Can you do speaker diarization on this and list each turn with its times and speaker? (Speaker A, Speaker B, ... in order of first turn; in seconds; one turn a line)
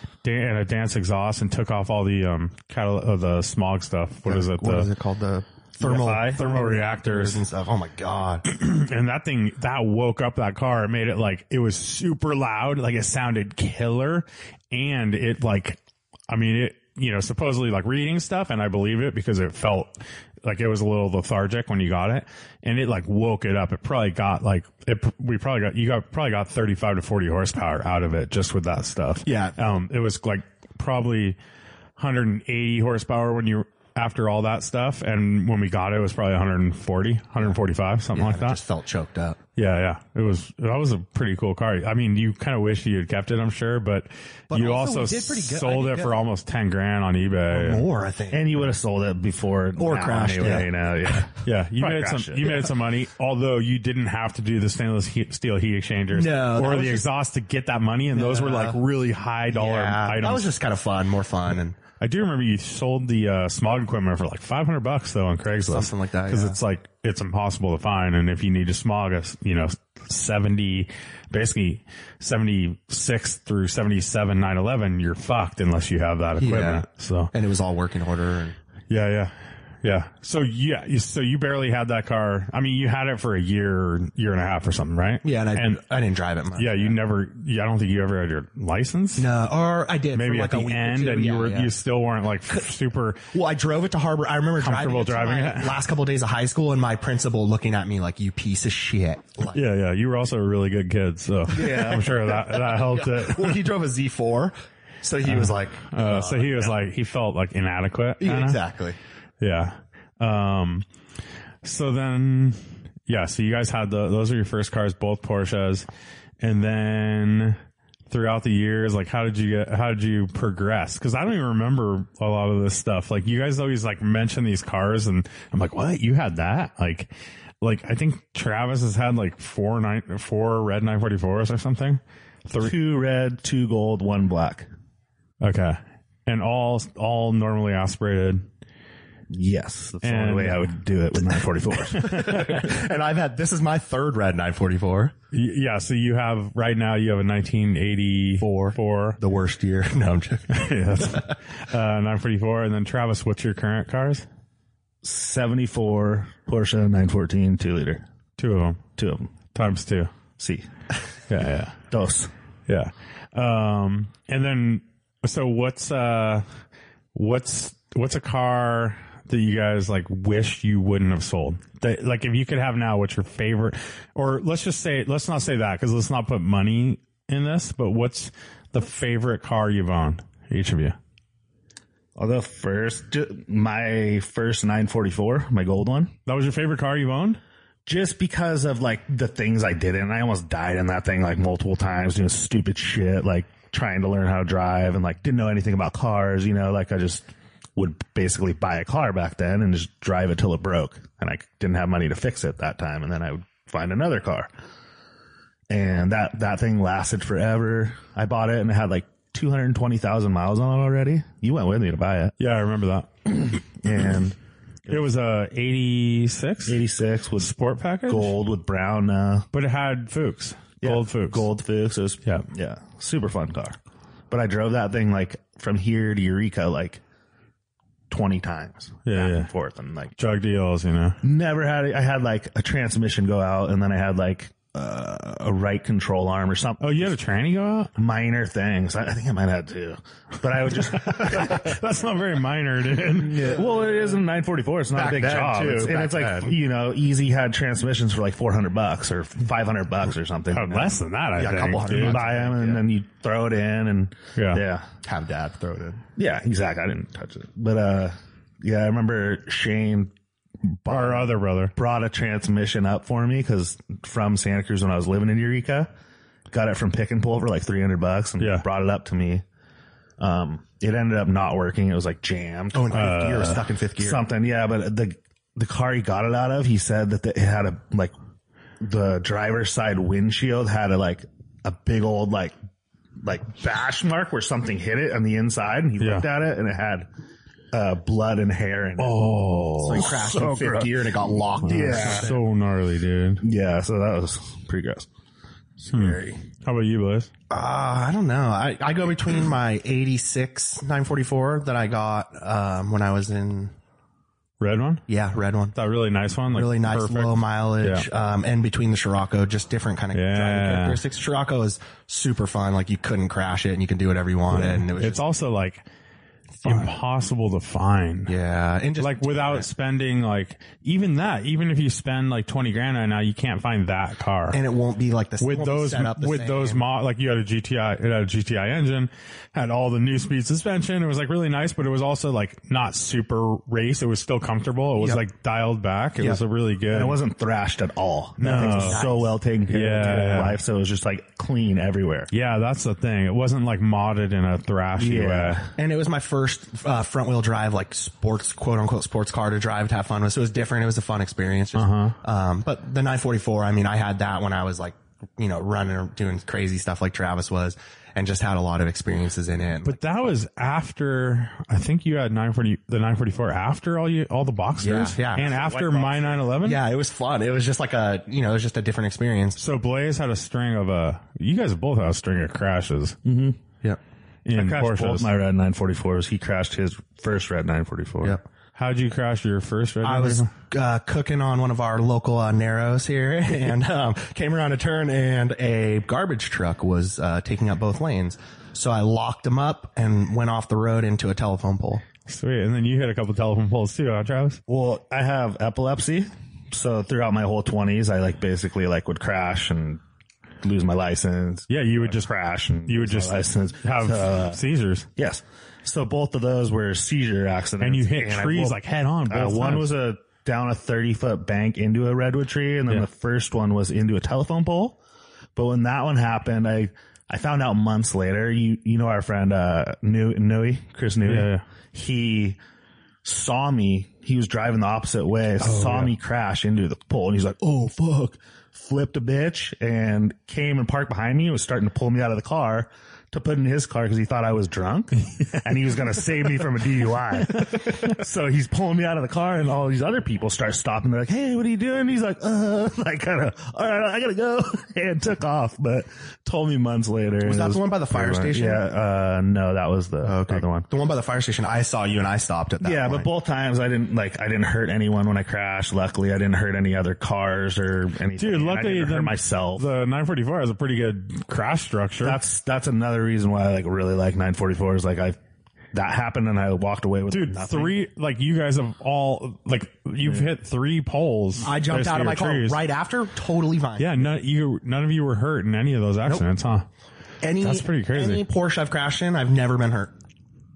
Speaker A: 0.2-4.9
Speaker B: 4.2-8.4
Speaker C: 5.8-6.5
Speaker A: 6.3-7.4
Speaker A: 8.4-31.4
Speaker B: 29.2-29.6
Speaker A: 32.0-38.6
Speaker B: 38.1-39.4
Speaker A: 39.6-47.8
Speaker B: 44.5-46.2
Speaker B: 47.5-48.5
Speaker C: 48.3-52.6
Speaker B: 49.8-50.7
Speaker A: 51.4-60.5
Speaker B: 56.1-57.0
Speaker B: 58.1-58.8
Speaker B: 59.5-61.8
Speaker A: 62.0-77.3
Speaker B: 65.7-66.6
Speaker B: 76.4-78.5
Speaker A: 78.9-85.8
Speaker B: 85.2-86.9
Speaker A: 86.6-89.3
Speaker B: 89.2-91.7
Speaker A: 90.1-93.2
Speaker B: 93.3-99.6
Speaker A: 94.6-95.8
Speaker A: 99.5-103.6
Speaker B: 101.5-106.7
Speaker A: 105.2-108.6
Speaker B: 108.2-109.0
Speaker A: 109.4-110.8
Speaker A: 111.6-115.8
Speaker A: 116.4-117.6
Speaker A: 118.1-132.7
Speaker C: 132.6-134.7
Speaker A: 135.4-138.5
Speaker C: 139.3-142.7
Speaker A: 140.0-140.8
Speaker B: 142.0-145.1
Speaker A: 145.3-149.2
Speaker B: 148.4-151.3
Speaker A: 150.5-154.2
Speaker C: 155.0-158.0
Speaker A: 158.4-158.8
Speaker C: 159.0-159.3
Speaker A: 159.5-160.1
Speaker C: 160.4-160.7
Speaker A: 161.3-161.7
Speaker C: 161.9-162.3
Speaker A: 162.7-166.4
Speaker A: 167.1-181.0
Speaker C: 182.2-186.1
Speaker A: 186.2-187.4
Speaker C: 187.8-204.5
Speaker C: 205.7-212.3
Speaker A: 212.4-213.1
Speaker C: 213.4-214.4
Speaker A: 214.9-216.8
Speaker C: 216.7-217.5
Speaker A: 217.4-218.3
Speaker C: 218.1-219.5
Speaker A: 219.5-221.5
Speaker C: 220.8-223.8
Speaker C: 224.3-227.0
Speaker C: 228.1-230.1
Speaker A: 229.0-229.5
Speaker A: 230.2-231.2
Speaker C: 231.2-237.1
Speaker A: 236.8-237.9
Speaker C: 237.9-241.7
Speaker A: 240.9-243.6
Speaker C: 243.3-251.0
Speaker B: 244.9-246.6
Speaker A: 250.5-252.2
Speaker B: 251.4-252.8
Speaker C: 251.8-254.9
Speaker A: 254.3-254.6
Speaker B: 255.0-256.0
Speaker C: 256.2-260.1
Speaker C: 260.7-265.9
Speaker A: 260.9-261.7
Speaker C: 266.5-269.4
Speaker A: 268.4-268.6
Speaker C: 270.2-273.2
Speaker B: 272.7-274.2
Speaker A: 272.9-273.6
Speaker C: 274.0-278.1
Speaker C: 278.8-282.6
Speaker C: 283.2-287.1
Speaker A: 286.0-286.3
Speaker C: 287.7-292.3
Speaker A: 289.0-290.0
Speaker B: 289.8-292.4
Speaker A: 291.6-293.4
Speaker C: 293.4-295.1
Speaker C: 295.8-296.4
Speaker A: 295.9-297.3
Speaker B: 297.5-303.7
Speaker A: 304.6-305.0
Speaker B: 305.1-305.8
Speaker A: 305.7-308.0
Speaker B: 306.5-315.2
Speaker A: 310.1-311.0
Speaker A: 314.5-315.8
Speaker A: 316.6-318.3
Speaker B: 316.6-316.9
Speaker B: 318.3-319.7
Speaker A: 319.0-324.6
Speaker B: 324.5-326.8
Speaker A: 325.4-337.2
Speaker C: 336.9-342.3
Speaker A: 338.4-339.0
Speaker B: 338.4-339.4
Speaker A: 339.7-340.6
Speaker A: 342.3-345.6
Speaker C: 345.0-345.7
Speaker B: 345.8-360.0
Speaker A: 351.7-352.1
Speaker A: 359.8-366.8
Speaker B: 364.8-365.5
Speaker C: 365.3-366.5
Speaker B: 366.6-369.6
Speaker A: 369.6-373.2
Speaker C: 373.2-373.6
Speaker A: 374.4-375.3
Speaker C: 374.5-378.4
Speaker A: 378.8-380.5
Speaker B: 380.0-392.0
Speaker A: 392.3-394.6
Speaker C: 394.7-400.0
Speaker C: 400.6-404.6
Speaker A: 401.7-402.3
Speaker A: 402.8-405.1
Speaker C: 405.1-408.8
Speaker A: 407.8-410.0
Speaker C: 409.3-415.0
Speaker C: 415.6-422.6
Speaker A: 421.2-421.6
Speaker C: 423.2-450.9
Speaker A: 425.6-426.1
Speaker B: 447.4-448.8
Speaker B: 450.2-453.3
Speaker C: 452.8-459.9
Speaker A: 458.4-462.4
Speaker C: 462.2-465.4
Speaker C: 465.9-468.0
Speaker A: 467.3-472.8
Speaker B: 471.6-474.2
Speaker A: 474.0-476.9
Speaker B: 477.4-480.1
Speaker A: 477.6-478.4